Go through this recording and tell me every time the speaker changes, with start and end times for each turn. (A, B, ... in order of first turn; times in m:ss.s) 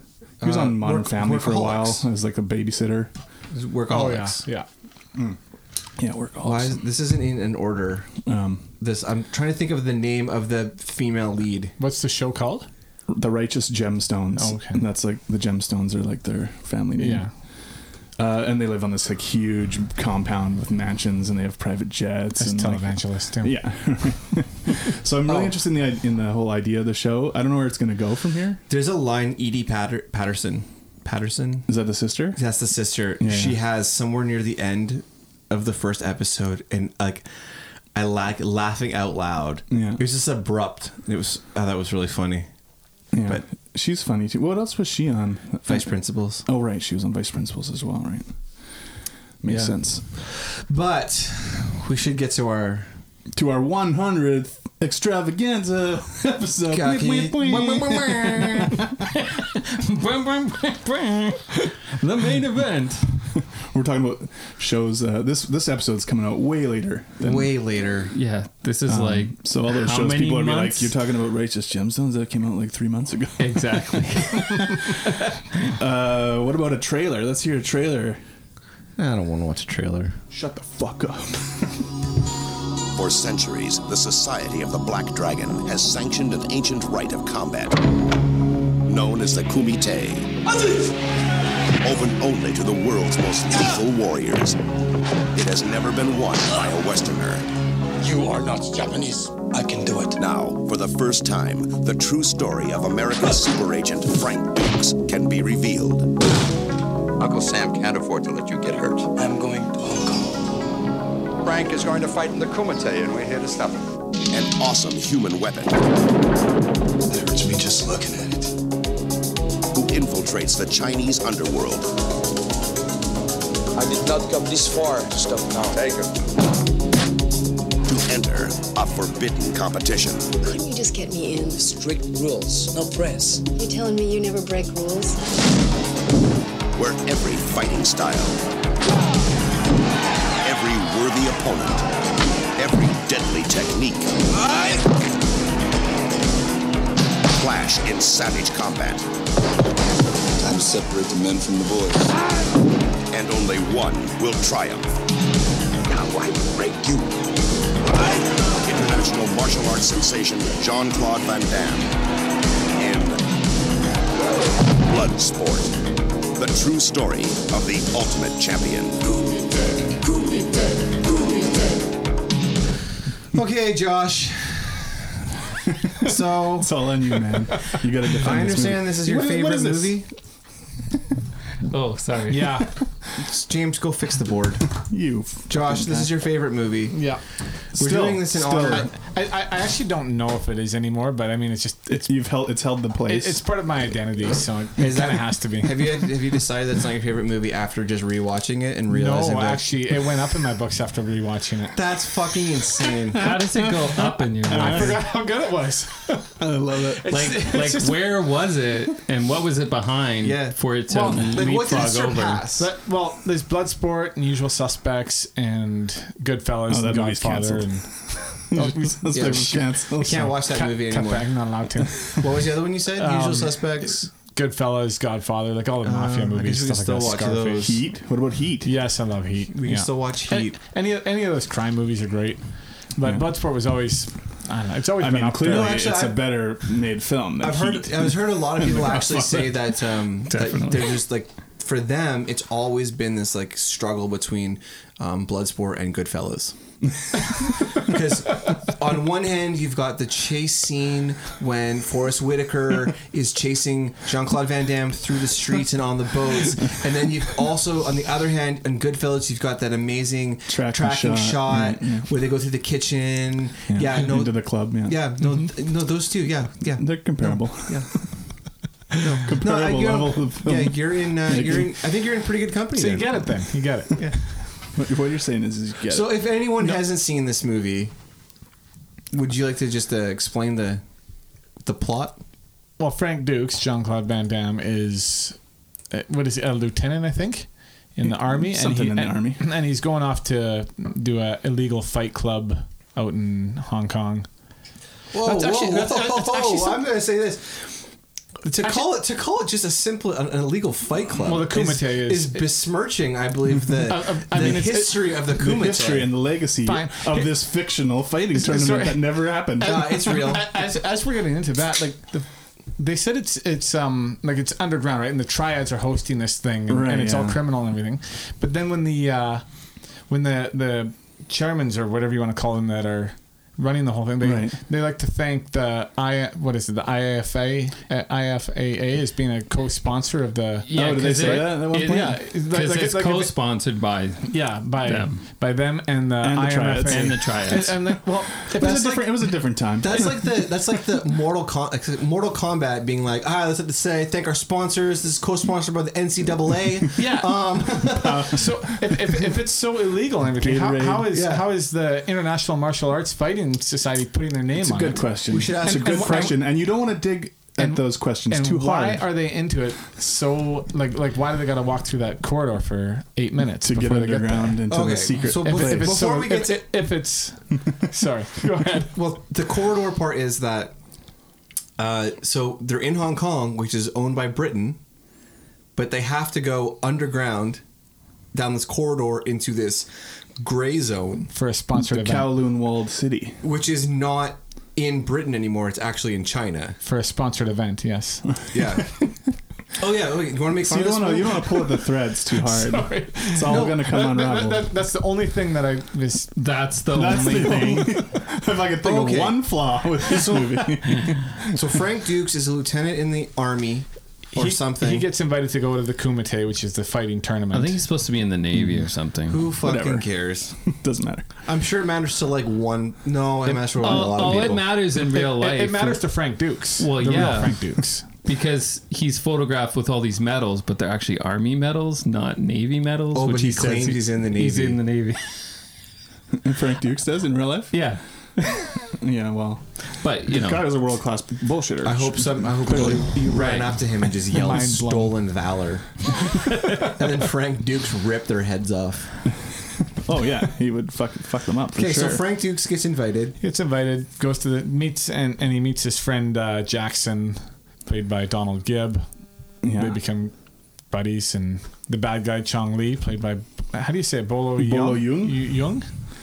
0:00.4-0:02.0 A
0:00.4-0:03.1 B
0:03.5-0:04.4 A
0:03.9-0:04.7 C
0:06.0-0:06.8 B
0:06.4-0:08.2 A
0:08.2-0:08.7 B
0:08.8-0:11.7 A
0:11.8-0:12.7 C
0:13.1-0:17.3 B
0:14.4-0:14.8 C
0:17.0-0:17.3 C
0:18.2-0:28.6 B
0:22.4-0:23.6 C
0:25.3-0:25.5 A
0:28.7-0:31.7 A
0:31.7-0:32.4 B
0:32.4-0:37.3 A
0:33.2-0:33.6 B
0:37.9-0:42.5 A
0:39.7-0:40.0 B
0:43.1-0:45.9 B
0:45.7-0:46.4 A
0:46.4-0:48.6 B
0:49.4-0:50.0 B
0:49.5-0:53.0 A
0:53.3-0:58.9 B
0:56.7-0:58.8 A
0:59.2-1:03.2 D
1:03.5-1:07.5 B
1:07.2-1:08.1 A
1:08.1-1:10.9 D
1:08.9-1:15.0 B
1:13.4-1:15.4 D
1:15.6-1:18.2 B
1:19.0-1:20.2 A
1:20.3-1:21.9 B
1:23.0-1:27.8 E
1:28.8-1:30.4 E
1:31.8-1:34.6 E
1:35.3-1:37.5 E
1:38.1-1:40.1 F
1:40.2-1:46.1 E
1:47.2-1:49.2 G
1:49.3-1:50.1 F
1:51.7-1:53.5 G
1:54.3-1:55.8 E
1:57.1-1:58.4 F
1:59.7-2:01.9 E
2:03.8-2:06.0 H
2:07.9-2:10.4 E
2:10.4-2:11.6 I
2:11.6-2:13.5 H
2:13.5-2:15.2 I
2:16.8-2:18.4 E
2:20.4-2:21.9 E
2:22.6-2:24.8 E
2:27.3-2:29.1 E
2:30.5-2:32.0 F
2:33.1-2:34.9 E
2:35.9-2:37.2 E
2:37.8-2:41.9 E
2:42.8-2:43.2 E
2:44.8-2:45.8 E
2:46.4-2:49.2 E
2:53.3-2:54.9 A
2:56.0-2:56.9 A
2:56.6-3:00.0 B
2:58.1-3:00.1 A
3:01.7-3:02.6 D
3:02.3-3:02.7 C
3:03.2-3:04.8 A
3:04.8-3:06.1 B
3:05.5-3:07.1 A
3:06.9-3:07.2 C
3:07.7-3:08.9 A
3:07.7-3:08.9 B
3:08.6-3:12.2 C
3:11.9-3:13.7 B
3:13.0-3:16.0 C
3:14.8-3:19.7 A
3:18.9-3:21.8 C
3:21.8-3:23.3 A
3:23.2-3:25.0 D
3:23.2-3:25.0 B
3:24.5-3:26.4 C
3:26.4-3:27.3 B
3:27.0-3:28.0 C
3:27.1-3:32.4 D
3:30.2-3:32.7 A
3:30.9-3:31.5 C
3:32.6-3:47.9 C
3:36.7-3:40.4 B
3:39.1-3:41.5 A
3:42.2-3:44.1 A
3:45.8-3:47.8 A
3:47.6-3:48.7 B
3:48.6-3:55.8 C
3:49.5-3:50.6 A
3:53.0-3:53.3 B
3:55.0-4:00.7 B
3:55.4-3:56.4 A
3:57.4-4:06.6 A
4:07.2-4:28.1 A
4:20.5-4:22.1 B
4:23.7-4:25.5 B
4:26.8-4:28.1 B
4:29.0-4:33.2 A
4:29.2-4:32.0 B
4:32.8-4:34.5 C
4:34.8-4:36.4 B
4:35.9-4:37.9 A
4:39.1-4:40.8 A
4:41.6-4:42.2 A
4:42.8-4:45.4 C
4:45.9-4:54.3 C
4:48.0-4:49.4 B
4:55.1-4:57.8 A
4:55.2-4:56.9 C
4:58.4-5:06.1 A
4:58.6-4:58.9 C
5:01.2-5:02.5 C
5:03.9-5:05.2 C
5:05.3-5:10.4 B
5:06.6-5:07.5 C
5:08.4-5:33.4 C
5:09.6-5:10.4 A
5:16.7-5:17.4 B
5:24.2-5:24.6 B
5:30.6-5:35.2 D
5:30.7-5:32.2 B
5:34.3-5:39.2 C
5:36.2-5:40.4 B
5:36.9-5:37.9 D
5:38.6-5:48.3 A
5:47.0-5:56.5 C
5:47.8-5:49.0 B
5:50.3-5:51.2 B
5:51.1-5:51.5 A
5:54.6-5:59.1 B
5:55.3-5:56.3 A
5:57.6-6:09.0 C
6:03.6-6:06.1 B
6:04.7-6:06.7 A
6:08.9-6:10.8 A
6:11.8-6:14.8 A
6:15.8-6:17.6 A
6:18.3-6:21.3 A
6:21.3-6:22.4 C
6:21.7-6:23.4 B
6:23.4-6:26.8 A
6:26.8-6:28.4 C
6:28.5-6:29.0 A
6:29.8-6:31.6 A
6:30.6-6:34.7 B
6:32.4-6:36.5 C
6:33.4-6:33.8 A
6:36.4-6:37.9 D
6:36.9-6:41.6 B
6:37.0-6:37.8 C
6:38.8-6:45.1 A
6:44.4-6:47.8 C
6:47.5-6:49.5 D
6:49.3-6:50.7 A
6:49.6-6:51.3 B
6:51.4-6:54.6 A
6:53.5-6:56.2 D
6:53.8-6:58.0 C
6:56.8-7:05.5 D
7:03.1-7:04.8 A
7:06.4-7:07.9 B
7:07.7-7:08.0 D
7:08.9-7:13.2 B
7:10.0-7:10.7 D
7:11.8-7:19.2 A
7:13.3-7:14.0 D
7:14.3-7:15.2 C
7:19.9-7:22.2 B
7:21.8-7:23.4 A
7:23.4-7:29.1 C
7:29.6-7:30.0 B
7:29.6-7:35.9 C
7:34.6-7:35.6 B